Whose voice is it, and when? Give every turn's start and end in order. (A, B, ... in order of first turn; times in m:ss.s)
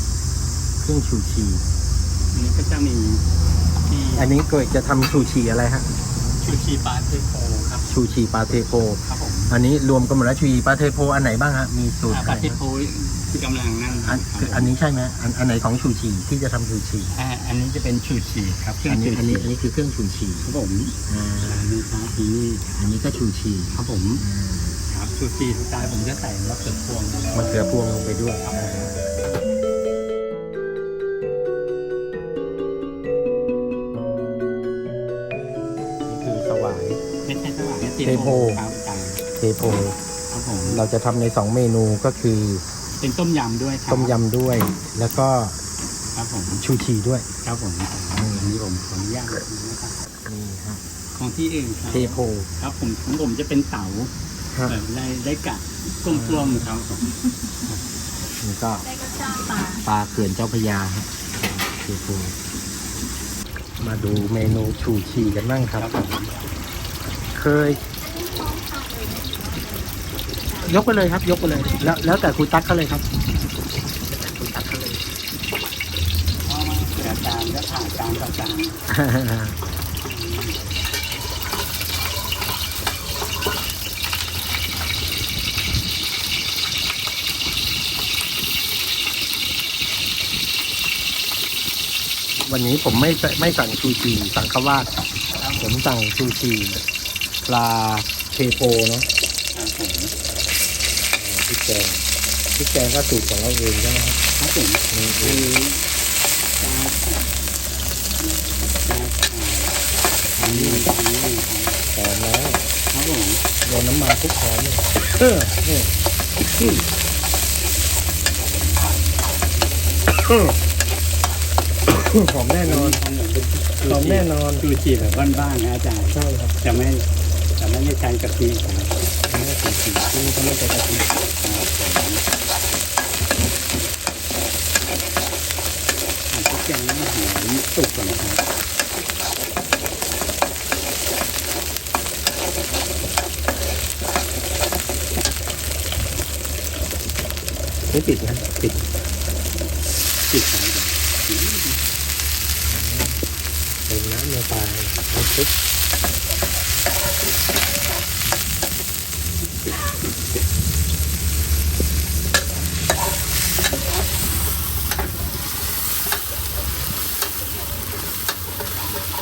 0:00.8-0:01.6 A
0:02.3-0:03.2 B
0:03.8-0:04.3 B
0:04.2-0:05.9 A
0:06.4-0:07.9 B
0:07.9-0:12.6 A
0:09.0-0:09.6 B
0:12.1-0:14.7 B
0:14.0-0:17.1 A
0:17.1-0:19.5 B
0:18.8-0:20.5 A
0:20.4-0:22.7 B
0:21.1-0:21.7 A
0:22.7-0:24.8 A
0:23.7-0:24.2 B
0:24.9-0:27.8 B
0:27.3-0:29.1 A
0:28.4-0:29.0 B
0:36.1-0:37.0 A
0:37.2-0:39.2 B
0:38.0-0:38.6 A
0:39.4-0:40.0 A
0:40.3-0:40.8 B
0:40.6-0:42.6 A
0:43.0-0:44.1 B
0:43.9-0:45.6 A
0:46.1-0:46.6 B
0:46.6-0:47.2 A
0:47.4-0:50.0 B
0:48.2-0:48.6 A
0:50.2-0:50.8 A
0:51.2-0:54.1 B
0:51.9-0:52.5 A
0:54.6-0:57.8 B
0:56.1-0:56.7 A
0:58.4-0:58.9 A
0:59.1-0:59.8 C
0:59.6-1:02.3 A
1:03.8-1:05.9 A
1:05.7-1:06.3 B
1:07.3-1:07.8 A
1:08.0-1:09.9 C
1:10.6-1:13.0 A
1:14.1-1:15.0 A
1:16.4-1:18.8 B
1:18.9-1:19.6 A
1:20.0-1:20.8 B
1:32.4-1:34.9 A
1:35.3-1:35.7 B
1:35.6-1:36.8 A
1:37.4-1:39.1 A
1:39.5-1:40.1 B
1:41.1-1:44.2 A
1:44.4-1:45.9 B
1:44.9-1:45.5 A
1:46.6-1:47.5 B
1:48.2-1:49.8 B
1:50.4-1:50.9 A
1:50.4-1:51.8 B
1:51.9-1:52.6 A
1:52.9-1:53.4 B
1:53.6-1:56.0 A
1:56.6-1:56.8 A
1:58.4-1:59.4 B
2:00.2-2:00.6 A
2:01.9-2:03.0 A
2:02.6-2:07.0 B
2:03.8-2:04.6 A
2:06.1-2:06.6 A
2:07.6-2:09.0 B
2:09.2-2:11.1 A
2:11.4-2:12.2 B
2:16.3-2:18.4 B
2:27.9-2:28.9 A
2:30.3-2:31.8 B
2:32.7-2:33.2 A
2:33.9-2:35.5 A